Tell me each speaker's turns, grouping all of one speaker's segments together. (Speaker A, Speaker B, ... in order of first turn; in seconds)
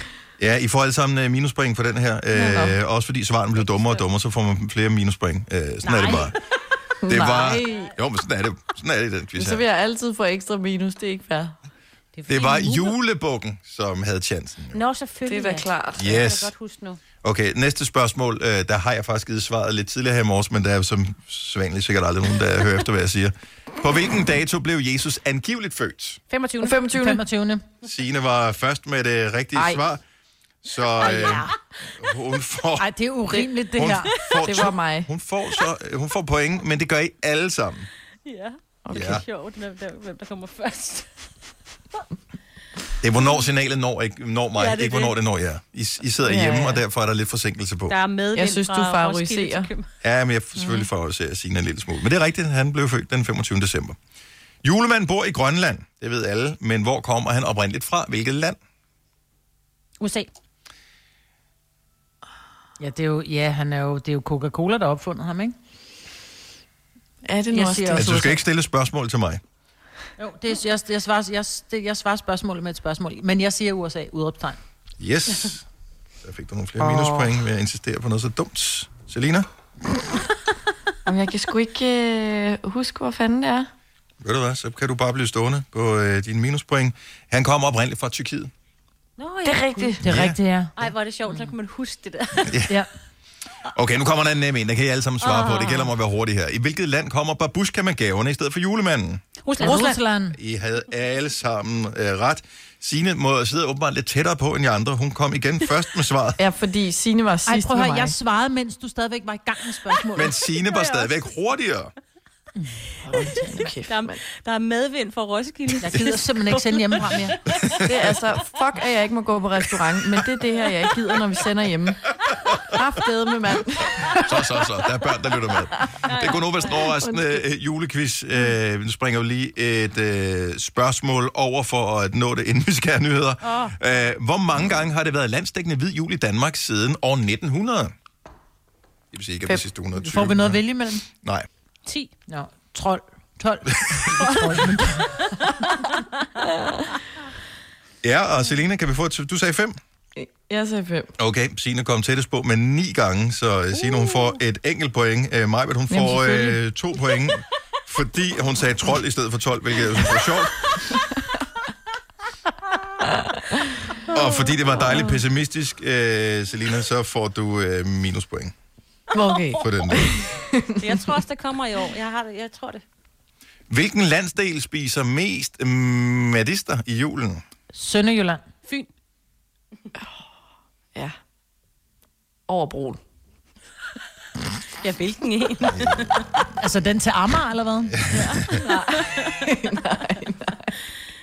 Speaker A: 0.4-6.3, 7.1-9.7, 12.3-14.8, 16.0-16.5, 17.2-26.2, 27.8-30.0, 30.6-33.0, 33.7-37.9, 38.9-39.2, 43.0-48.0, 50.0-54.0, 54.6-58.6, 67.9-69.4, 75.0-75.7, 76.2-79.5, 84.2-88.5, 90.0-90.4, 92.5-92.8, 93.7-99.2, 100.3-106.4, 110.1-111.9, 117.4-118.2, 124.1-137.9, 139.1-140.6, 141.2-141.5, 143.7-144.2, 148.0-149.8, 151.2-161.0, 164.1-168.5, 169.6-170.1, 173.7-177.4, 187.9-188.6
Speaker B: 2.3-2.8, 7.0-7.9, 9.4-11.6, 15.3-16.1, 26.6-27.2, 29.6-29.8, 34.4-35.1, 38.9-39.2, 46.2-46.8, 48.3-49.7, 67.3-68.4, 76.8-77.4, 81.0-83.7, 89.5-90.0, 106.4-108.2, 113.0-114.2, 117.8-122.0, 122.7-124.5, 126.8-127.4, 150.2-151.2, 155.9-156.6, 169.1-171.0, 182.5-183.0, 188.6-190.7
Speaker C: 3.5-4.1, 5.8-6.3, 7.7-7.9, 12.1-13.0, 14.7-17.0, 26.3-26.9, 31.0-31.5, 34.1-34.7, 38.2-41.1, 43.2-43.4, 44.5-45.2, 47.9-49.9, 60.0-60.3, 89.2-90.0, 90.8-92.6, 95.2-95.9, 99.4-100.0, 110.6-111.2, 113.5-118.2, 126.1-126.9, 141.9-142.1, 144.1-145.2, 169.3-169.6, 170.8-172.8, 184.8-186.4, 188.1-189.5
Speaker D: 26.9-27.7, 32.8-34.3, 62.8-65.5, 67.5-68.3, 70.2-74.6, 90.0-91.5, 99.6-100.4, 107.5-110.3, 115.9-117.4, 139.9-141.1, 142.3-145.7, 177.7-178.4, 186.6-188.0